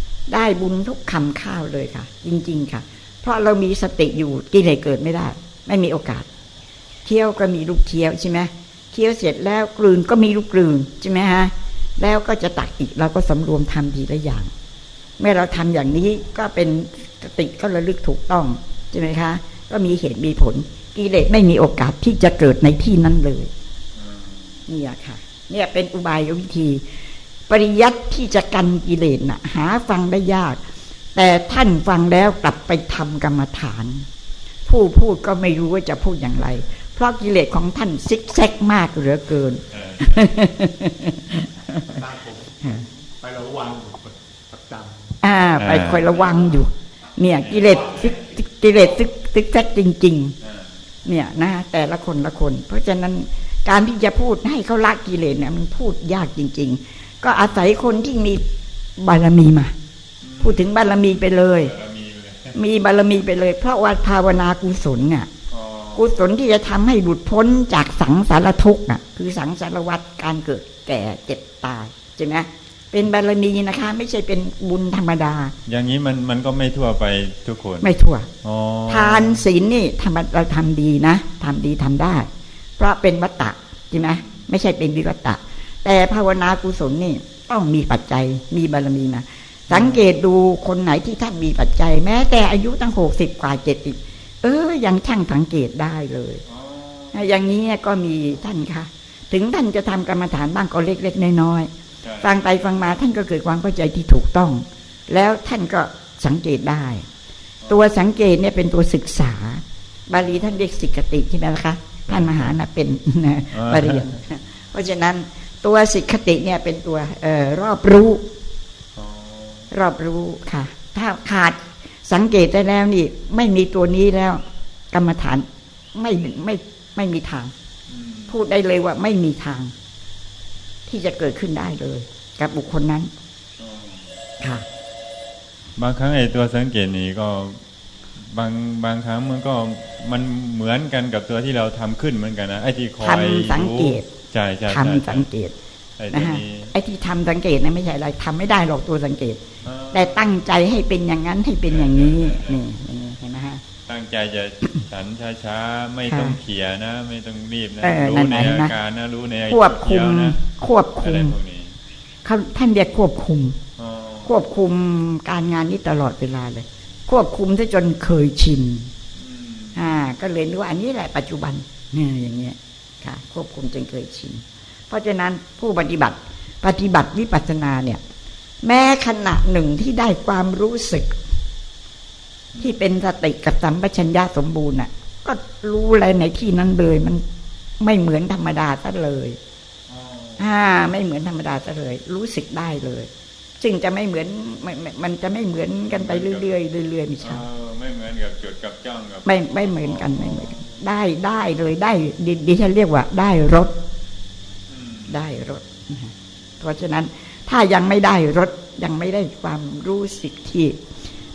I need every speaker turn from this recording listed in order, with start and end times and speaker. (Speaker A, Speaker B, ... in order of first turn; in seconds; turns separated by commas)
Speaker A: 0.3-6.3, Speaker A: 7.0-14.5, Speaker A: 15.2-23.5, Speaker B: 23.9-24.6, Speaker A: 24.7-26.8, Speaker A: 27.5-30.6, Speaker A: 31.1-34.1, Speaker A: 34.7-41.9, Speaker B: 39.7-40.2, Speaker C: 41.8-45.0, Speaker A: 45.2-50.4, Speaker B: 45.6-46.3, Speaker B: 47.4-48.0, Speaker B: 50.4-50.7, Speaker A: 51.0-58.5, Speaker A: 59.0-59.7, Speaker B: 60.2-60.7, Speaker A: 60.4-61.7, Speaker B: 61.5-62.6, Speaker A: 62.5-65.3, Speaker B: 65.5-66.2, Speaker A: 66.0-75.5, Speaker B: 75.7-77.9, Speaker A: 77.8-78.3, Speaker B: 78.4-79.4, Speaker A: 78.9-96.4, Speaker B: 89.7-90.0, Speaker B: 96.5-97.3, Speaker A: 97.1-101.7, Speaker B: 102.0-102.3, Speaker A: 102.2-107.0, Speaker B: 107.6-107.9, Speaker A: 107.7-118.2, Speaker B: 112.1-112.5, Speaker B: 113.5-114.2, Speaker B: 118.9-119.7, Speaker A: 119.7-127.5, Speaker B: 127.9-128.3, Speaker A: 128.3-129.7, Speaker A: 130.9-133.1, Speaker B: 133.6-134.1, Speaker A: 134.4-134.6, Speaker B: 135.8-137.6, Speaker B: 138.2-145.2, Speaker A: 143.0-144.1, Speaker A: 144.7-145.5, Speaker B: 146.0-146.7, Speaker A: 146.1-153.6, Speaker B: 149.6-150.3, Speaker B: 151.7-152.6, Speaker B: 153.9-160.4, Speaker A: 156.1-156.4, Speaker A: 157.8-158.7, Speaker A: 159.5-161.3, Speaker B: 161.0-161.7, Speaker A: 162.2-163.6, Speaker B: 163.8-164.3, Speaker A: 164.2-168.9, Speaker B: 169.2-169.8, Speaker A: 169.7-178.0, Speaker A: 178.6-181.2, Speaker A: 182.6-187.2, Speaker A: 187.8-189.4, Speaker B: 189.9-190.5, Speaker A: 190.4-193.1, Speaker A: 193.6-197.4, Speaker B: 195.9-196.5, Speaker B: 197.2-200.6, Speaker A: 199.2-203.7, Speaker B: 204.7-205.1, Speaker A: 205.1-210.8